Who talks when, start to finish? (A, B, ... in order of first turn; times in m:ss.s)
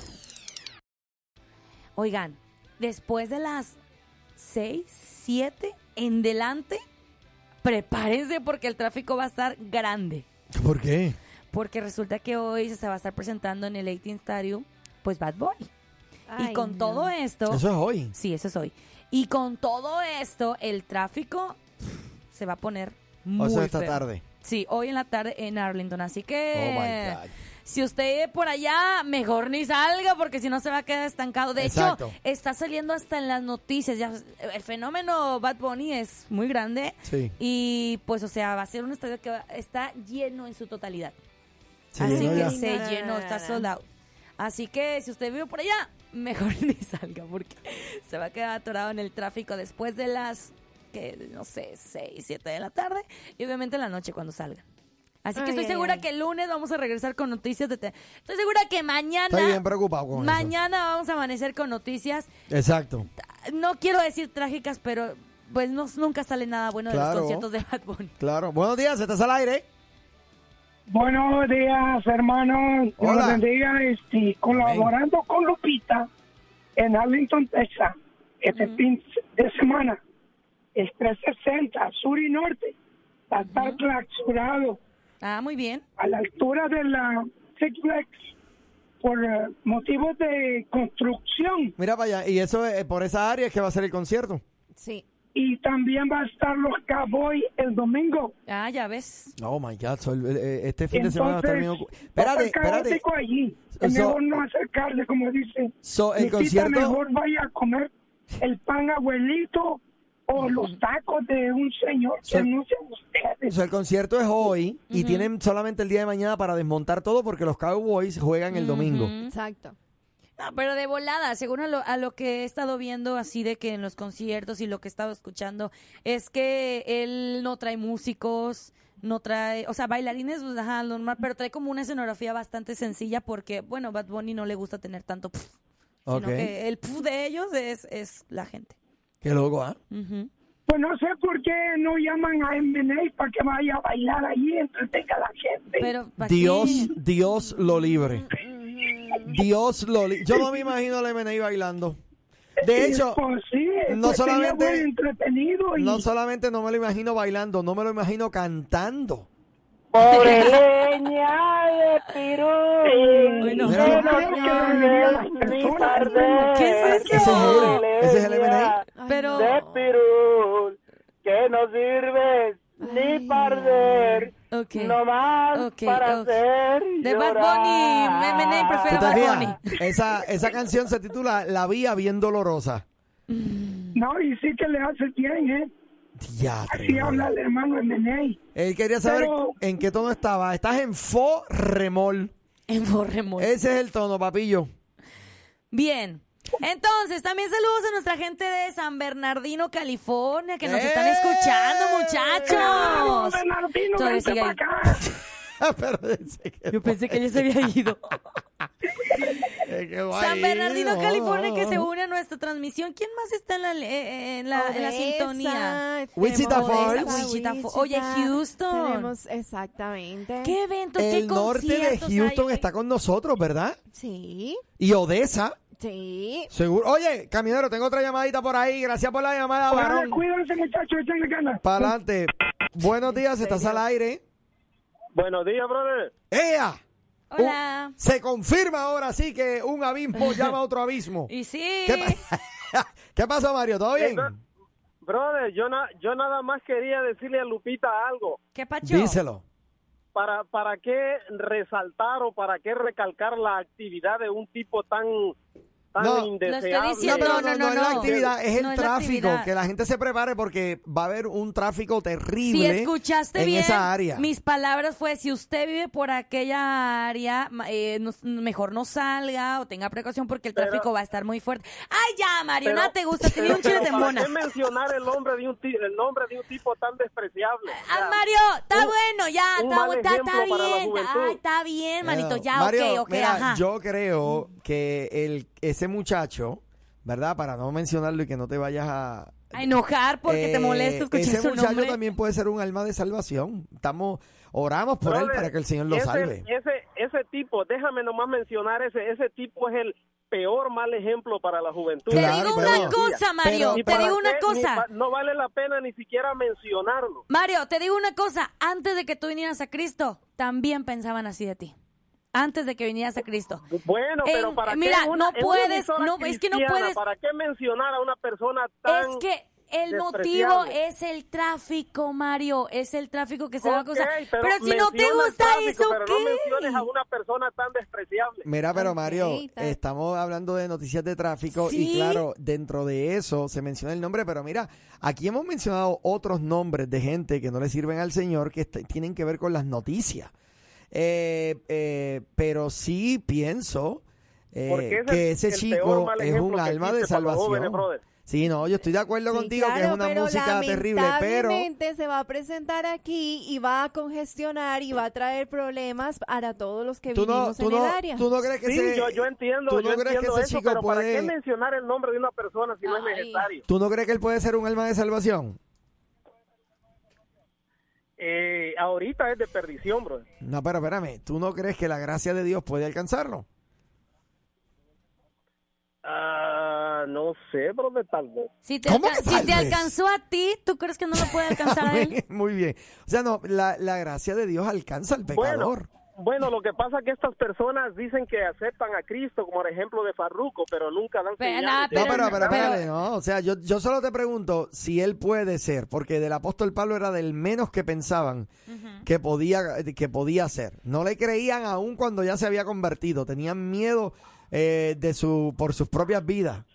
0:02.0-0:03.8 A
0:04.4-0:06.8 A
0:07.6-0:10.2 A
0:10.5-0:11.2 B
0:11.5-0:15.7 A
0:16.3-0:17.1 C
0:16.4-0:21.6 A
0:17.5-0:18.1 B
0:22.3-0:41.2 A
0:23.4-0:24.2 B
0:26.5-0:27.3 B
0:31.6-0:32.2 B
0:37.0-0:37.3 B
0:41.9-0:42.8 B
0:42.0-0:43.7 C
0:42.0-0:43.8 A
0:44.4-0:54.6 A
0:55.2-0:59.6 A
0:55.3-0:56.0 C
0:59.3-1:00.5 B
1:00.1-1:02.3 A
1:02.5-1:03.1 B
1:03.3-1:08.1 A
1:06.9-1:07.5 B
1:08.2-1:09.6 B
1:10.9-1:16.1 D
1:13.0-1:13.4 B
1:14.5-1:14.9 B
1:16.8-1:20.0 D
1:18.5-1:18.8 A
1:20.8-1:22.8 D
1:23.3-1:24.8 D
1:23.4-1:23.8 A
1:25.2-1:25.8 A
1:26.0-1:28.2 D
1:29.0-1:31.7 D
1:31.8-1:34.4 B
1:34.8-1:35.0 C
1:35.3-1:38.3 D
1:38.5-1:39.3 A
1:39.4-1:43.0 B
1:40.9-1:53.6 D
1:43.7-1:44.4 B
1:45.8-1:47.0 B
1:50.4-1:50.8 A
1:53.5-1:59.1 B
1:54.9-1:55.3 A
1:58.5-1:59.3 A
1:59.2-1:59.8 C
2:00.4-2:15.6 A
2:16.1-2:16.5 B
2:16.1-2:18.8 A
2:19.2-2:19.8 B
2:19.9-2:20.3 A
2:20.7-2:25.9 D
2:25.8-2:26.9 A
2:26.2-2:28.2 B
2:27.5-2:29.4 C
2:29.2-2:32.0 B
2:32.6-2:36.0 D
2:32.6-2:33.2 B
2:33.9-2:34.9 B
2:35.7-2:39.3 B
2:39.9-2:59.8 E
2:40.0-2:40.6 A
2:42.9-2:47.7 D
2:43.4-2:44.2 A
2:43.6-2:44.0 B
2:43.7-2:46.4 C
2:46.5-2:47.8 A
2:47.1-2:48.8 B
2:48.9-2:50.0 C
2:49.1-2:49.5 A
2:52.8-2:54.3 C
2:54.5-2:55.0 A
2:55.5-2:56.4 A
2:57.0-2:59.6 A
2:58.9-3:02.8 B
3:03.3-3:04.0 A
3:03.9-3:05.7 D
3:06.2-3:07.3 B
3:06.7-3:08.4 D
3:08.5-3:12.3 B
3:09.0-3:09.6 D
3:12.7-3:13.5 A
3:13.4-3:14.7 B
3:15.7-3:23.4 A
3:20.6-3:22.4 B
3:22.4-3:25.0 D
3:23.9-3:24.6 A
3:25.6-3:27.4 B
3:26.7-3:28.1 A
3:29.6-3:31.9 B
3:30.1-3:35.8 A
3:34.5-3:40.6 C
3:36.1-3:37.3 B
3:36.4-3:39.1 A
3:40.4-3:42.7 A
3:41.0-3:43.8 B
3:43.9-3:44.6 C
3:44.8-3:45.6 B
3:45.8-3:46.5 C
3:46.5-3:50.2 B
3:49.7-3:51.9 D
3:51.6-3:54.2 B
3:55.1-3:56.1 F
3:56.3-3:56.8 B
3:57.3-3:58.0 A
3:57.4-4:01.3 B
4:01.3-4:02.2 A
4:01.8-4:04.3 B
4:04.0-4:04.3 F
4:05.0-4:08.4 F
4:08.5-4:09.2 A
4:08.8-4:09.4 B
4:10.1-4:15.3 F
4:15.9-4:18.3 F
4:16.0-4:16.3 B
4:16.4-4:19.5 A
4:17.0-4:24.2 B
4:22.4-4:34.3 A
4:30.5-4:30.8 F
4:32.6-4:38.2 F
4:37.7-4:43.6 A
4:39.6-4:41.4 F
4:42.0-4:49.6 B
4:49.5-4:52.0 A
4:50.2-4:56.4 B
4:55.0-5:07.2 F
5:02.1-5:04.2 B
5:02.1-5:04.8 A
5:07.3-5:11.7 A
5:12.3-5:13.6 A
5:13.7-5:19.2 F
5:14.2-5:17.0 A
5:18.8-5:26.8 A
5:19.9-5:20.8 F
5:23.6-5:28.4 F
5:28.4-5:40.3 B
5:28.7-5:29.8 C
5:31.5-5:32.2 A
5:40.9-5:51.7 B
5:44.7-5:48.0 F
5:49.3-5:58.3 C
5:57.1-6:01.3 B
5:58.6-6:03.6 F
6:02.9-6:03.4 C
6:03.7-6:05.6 B
6:08.2-6:10.2 F
6:10.4-6:13.4 B
6:16.0-6:18.5 F
6:18.6-6:22.2 A
6:18.8-6:19.9 B
6:21.2-6:25.9 B
6:25.3-6:32.8 F
6:31.4-6:32.8 A
6:31.9-6:38.5 B
6:38.7-6:39.0 A
6:39.0-6:46.6 B